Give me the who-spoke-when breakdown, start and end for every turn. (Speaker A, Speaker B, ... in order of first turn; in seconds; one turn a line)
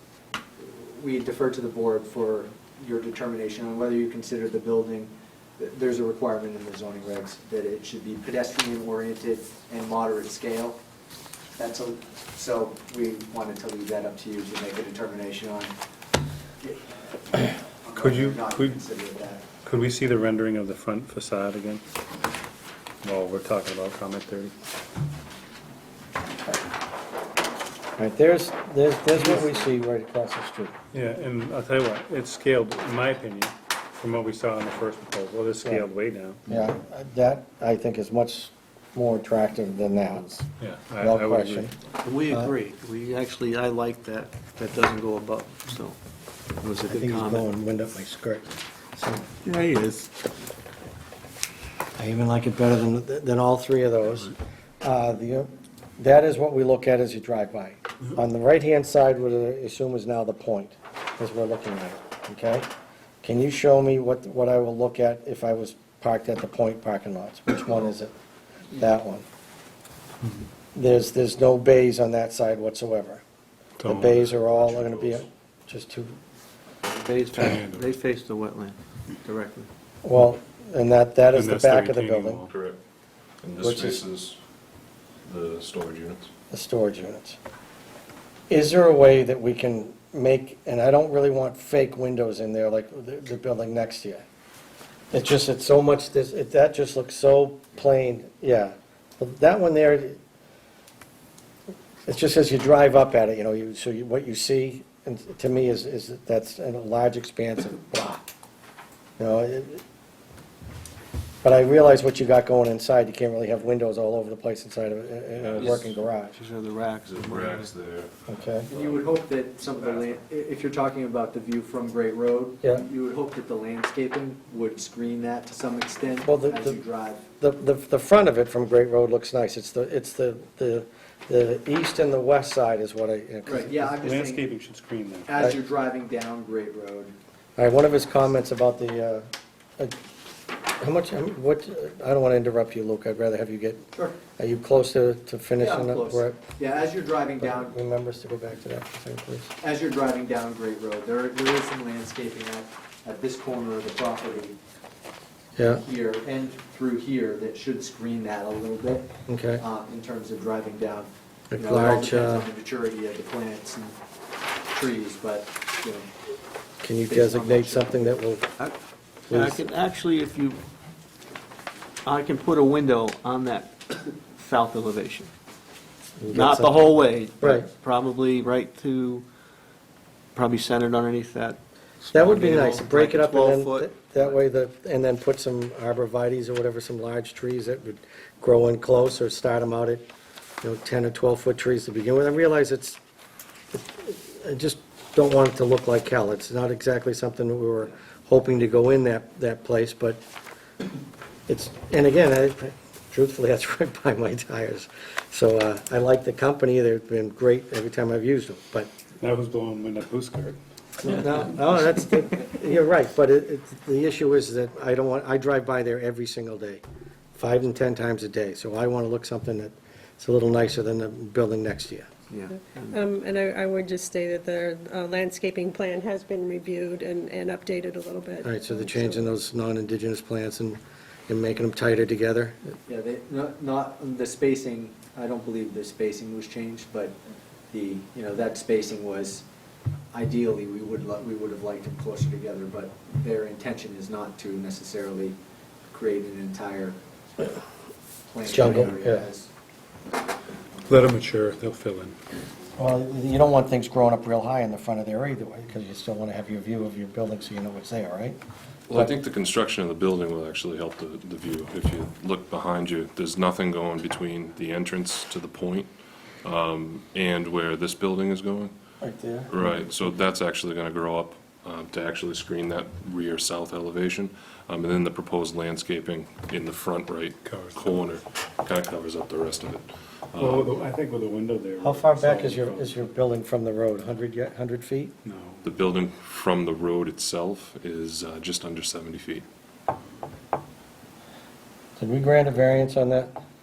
Speaker A: 0.6-10.8
Speaker A: 11.6-15.7
Speaker A: 16.6-19.4
Speaker B: 17.9-18.8
Speaker B: 19.6-21.8
Speaker B: 23.0-24.5
Speaker C: 28.0-30.7
Speaker B: 29.2-29.5
Speaker B: 30.9-36.4
Speaker C: 36.5-40.4
Speaker B: 40.6-41.7
Speaker C: 41.0-41.7
Speaker D: 42.0-46.0
Speaker D: 46.6-47.4
Speaker C: 46.9-49.2
Speaker D: 49.4-50.1
Speaker C: 52.0-62.7
Speaker C: 63.2-68.1
Speaker C: 68.7-69.2
Speaker C: 70.7-73.2
Speaker B: 73.8-74.3
Speaker C: 73.8-76.1
Speaker E: 74.4-75.2
Speaker D: 76.8-79.7
Speaker B: 77.4-77.9
Speaker C: 80.0-82.4
Speaker B: 81.3-82.5
Speaker E: 82.5-82.8
Speaker E: 83.4-84.4
Speaker C: 83.6-84.0
Speaker E: 85.2-86.3
Speaker C: 86.5-87.4
Speaker C: 88.5-94.2
Speaker C: 95.1-100.2
Speaker C: 102.0-108.2
Speaker C: 109.2-109.8
Speaker C: 111.4-116.4
Speaker E: 115.3-115.9
Speaker D: 115.6-117.7
Speaker E: 117.0-118.1
Speaker C: 118.3-118.7
Speaker E: 118.7-119.0
Speaker A: 118.7-127.2
Speaker E: 119.8-120.1
Speaker C: 126.2-126.8
Speaker C: 127.4-133.9
Speaker A: 133.4-134.5
Speaker B: 134.0-135.3
Speaker A: 135.3-137.1
Speaker C: 137.6-139.3
Speaker C: 140.8-146.4
Speaker A: 143.9-144.2
Speaker A: 145.6-147.7
Speaker C: 147.4-149.5
Speaker A: 149.6-154.6
Speaker C: 155.6-155.8
Speaker A: 155.6-164.0
Speaker C: 159.3-159.6
Speaker C: 161.5-162.5
Speaker A: 164.7-166.1
Speaker C: 166.8-168.5
Speaker A: 167.1-168.1
Speaker C: 169.3-169.6
Speaker D: 169.3-170.6
Speaker D: 172.0-175.3
Speaker C: 176.2-176.8
Speaker D: 176.3-179.2
Speaker C: 177.4-177.7
Speaker D: 180.3-184.4
Speaker C: 182.1-190.1
Speaker C: 190.6-193.0
Speaker C: 193.7-200.2
Speaker C: 201.5-208.9
Speaker B: 209.2-210.6
Speaker C: 211.0-216.8
Speaker C: 217.4-222.1
Speaker D: 222.3-223.0
Speaker F: 222.9-229.3
Speaker C: 228.4-232.6
Speaker A: 232.9-237.2
Speaker A: 237.7-239.4
Speaker A: 240.1-245.3
Speaker A: 245.9-247.0
Speaker A: 248.3-249.5
Speaker C: 248.4-249.2
Speaker B: 250.9-252.2
Speaker C: 252.8-258.4
Speaker E: 258.9-265.9
Speaker E: 266.4-268.7
Speaker C: 269.0-269.5
Speaker E: 269.5-280.7
Speaker B: 277.4-278.0
Speaker B: 280.4-283.0
Speaker C: 281.8-285.1
Speaker B: 285.2-285.6
Speaker E: 285.6-289.4
Speaker C: 292.0-293.3